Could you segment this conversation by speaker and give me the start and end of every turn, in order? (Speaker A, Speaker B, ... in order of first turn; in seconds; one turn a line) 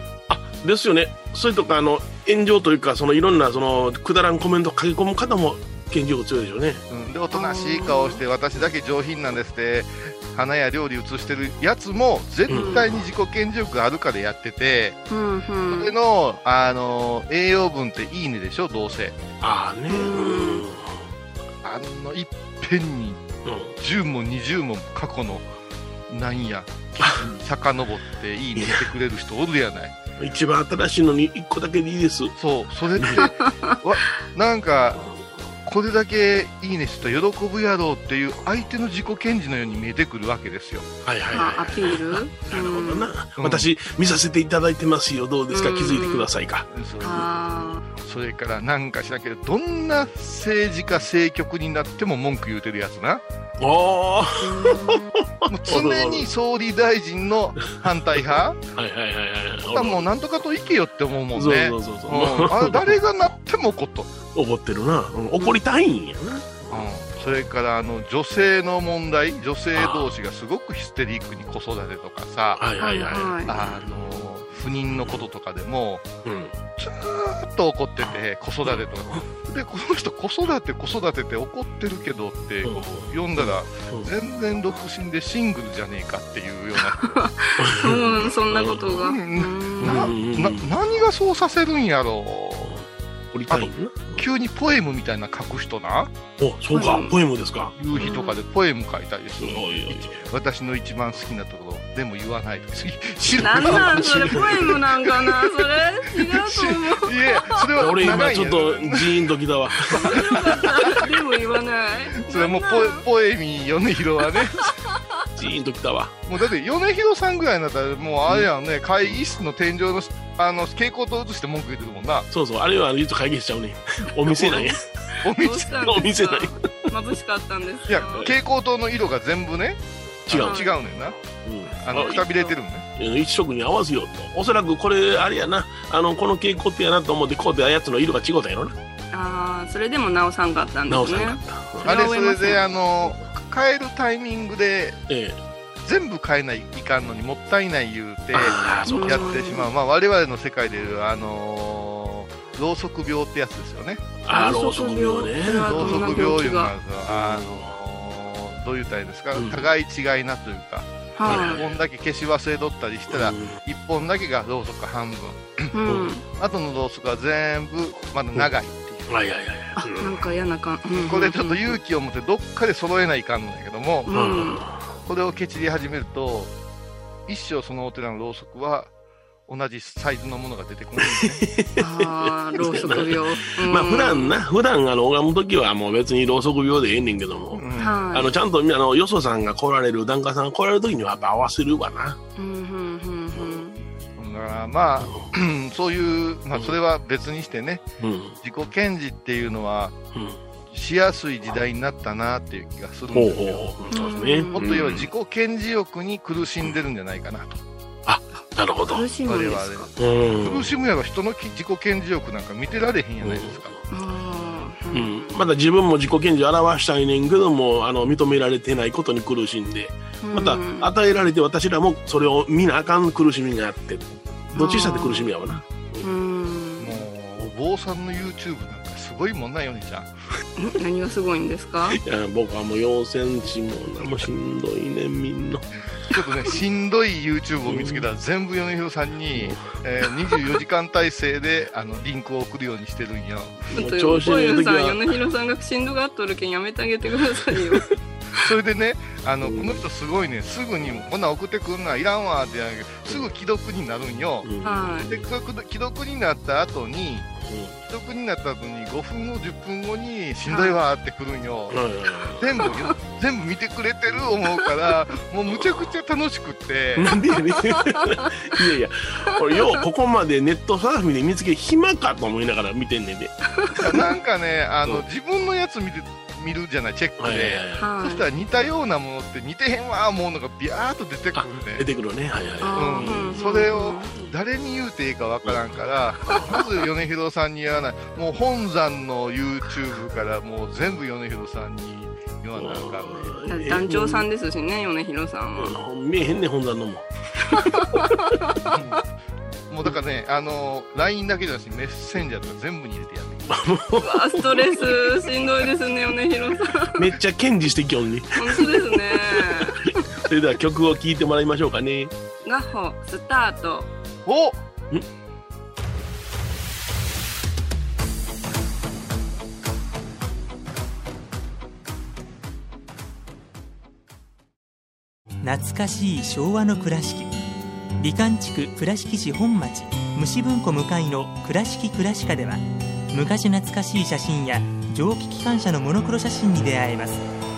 Speaker A: 0.3-6.8
Speaker B: 6.9-15.0
Speaker C: 7.3-8.2
Speaker A: 12.5-12.8
Speaker C: 12.5-12.8
Speaker C: 15.1-15.9
Speaker B: 15.7-19.2
Speaker A: 19.4-21.0
Speaker C: 19.9-20.7
Speaker B: 21.6-23.2
Speaker A: 23.5-23.7
Speaker B: 23.8-25.5
Speaker B: 26.1-30.0
Speaker A: 27.0-27.3
Speaker A: 28.6-28.9
Speaker A: 30.2-32.4
Speaker B: 32.4-35.1
Speaker A: 33.0-33.3
Speaker C: 33.2-33.8
Speaker B: 35.6-40.9
Speaker A: 41.0-46.7
Speaker C: 41.3-43.1
Speaker B: 43.4-43.7
Speaker C: 45.5-46.3
Speaker B: 46.7-47.3
Speaker C: 47.0-47.8
Speaker B: 48.0-53.2
Speaker A: 53.6-56.3
Speaker C: 54.4-55.1
Speaker B: 55.5-58.6
Speaker A: 58.8-60.1
Speaker B: 59.7-64.2
Speaker A: 61.4-63.0
Speaker A: 64.3-66.9
Speaker B: 66.7-72.6
Speaker A: 69.8-70.1
Speaker A: 72.6-74.0
Speaker C: 72.8-73.6
Speaker B: 73.5-76.1
Speaker A: 76.2-76.5
Speaker B: 76.8-87.1
Speaker A: 82.6-84.1
Speaker C: 87.0-90.1
Speaker A: 87.6-88.9
Speaker B: 88.9-92.7
Speaker A: 89.8-90.7
Speaker A: 92.7-94.2
Speaker B: 93.5-96.1
Speaker A: 96.4-98.1
Speaker C: 96.7-97.1
Speaker B: 97.8-104.8
Speaker C: 98.0-98.4
Speaker A: 99.4-100.3
Speaker A: 103.3-104.8
Speaker C: 103.4-107.7
Speaker B: 106.2-109.3
Speaker A: 107.8-110.3
Speaker C: 109.9-113.0
Speaker B: 109.9-111.0
Speaker B: 112.2-114.8
Speaker A: 115.4-116.2
Speaker B: 116.3-122.3
Speaker A: 122.3-124.9
Speaker C: 124.4-128.3
Speaker B: 125.2-125.9
Speaker A: 125.8-126.5
Speaker B: 127.9-131.2
Speaker A: 130.3-130.6
Speaker C: 130.4-130.7
Speaker A: 131.4-132.2
Speaker B: 131.8-132.9
Speaker C: 131.9-132.5
Speaker A: 133.0-138.8
Speaker C: 139.1-142.6
Speaker A: 140.9-141.9
Speaker B: 141.8-145.0
Speaker A: 145.1-145.4
Speaker B: 145.8-154.1
Speaker A: 148.3-149.4
Speaker C: 148.9-149.7
Speaker A: 154.2-156.3
Speaker C: 154.3-156.7
Speaker B: 155.5-165.7
Speaker A: 157.1-157.7
Speaker A: 159.3-159.7
Speaker C: 161.2-161.6
Speaker A: 161.2-161.8
Speaker A: 163.1-163.6
Speaker C: 165.7-166.2
Speaker A: 165.9-166.1
Speaker B: 166.3-169.1
Speaker A: 169.1-170.3
Speaker C: 169.8-171.7
Speaker B: 171.0-174.2
Speaker C: 174.1-174.6
Speaker A: 174.1-174.9
Speaker B: 175.1-176.5
Speaker B: 177.3-178.9
Speaker B: 179.5-181.5
Speaker A: 181.0-192.2
Speaker C: 181.8-184.3
Speaker B: 187.5-188.1
Speaker C: 187.8-188.3
Speaker C: 192.4-193.8
Speaker B: 194.2-197.8
Speaker A: 195.0-195.3
Speaker A: 198.0-198.4
Speaker B: 198.4-200.0
Speaker A: 200.1-200.4
Speaker B: 200.7-203.7
Speaker A: 203.1-205.1
Speaker C: 203.9-204.6
Speaker B: 204.5-207.6
Speaker A: 208.1-209.0
Speaker C: 208.9-209.9
Speaker B: 209.2-213.7
Speaker A: 210.0-210.7
Speaker A: 213.2-213.8
Speaker C: 213.9-215.3
Speaker A: 214.9-226.1
Speaker C: 220.2-220.9
Speaker C: 224.6-225.3
Speaker C: 226.0-227.0
Speaker B: 226.8-230.1
Speaker C: 230.6-232.0
Speaker A: 231.9-235.7
Speaker B: 236.1-243.7
Speaker A: 237.7-238.1
Speaker A: 239.3-239.7
Speaker C: 243.7-247.9
Speaker A: 243.8-245.0
Speaker B: 248.4-257.3
Speaker A: 249.4-249.8
Speaker A: 254.4-255.0
Speaker C: 254.6-255.1
Speaker A: 257.4-257.8
Speaker B: 257.9-261.8
Speaker C: 260.5-260.8
Speaker A: 261.7-262.6
Speaker B: 262.4-267.2
Speaker A: 267.0-273.4
Speaker C: 267.9-268.3
Speaker B: 273.8-281.9
Speaker A: 277.2-277.9
Speaker C: 277.8-278.3
Speaker A: 281.4-283.4
Speaker C: 282.6-284.1
Speaker B: 282.7-293.4
Speaker A: 286.3-286.6
Speaker A: 292.6-294.3
Speaker C: 293.5-295.8
Speaker A: 295.6-298.0
Speaker C: 297.5-298.8
Speaker B: 298.7-299.1
Speaker B: 299.7-303.5
Speaker A: 303.5-305.1
Speaker C: 304.0-307.0
Speaker A: 307.0-312.1
Speaker C: 308.4-310.0
Speaker C: 312.4-313.9
Speaker B: 314.3-314.6
Speaker D: 325.4-327.3
Speaker D: 328.0-337.2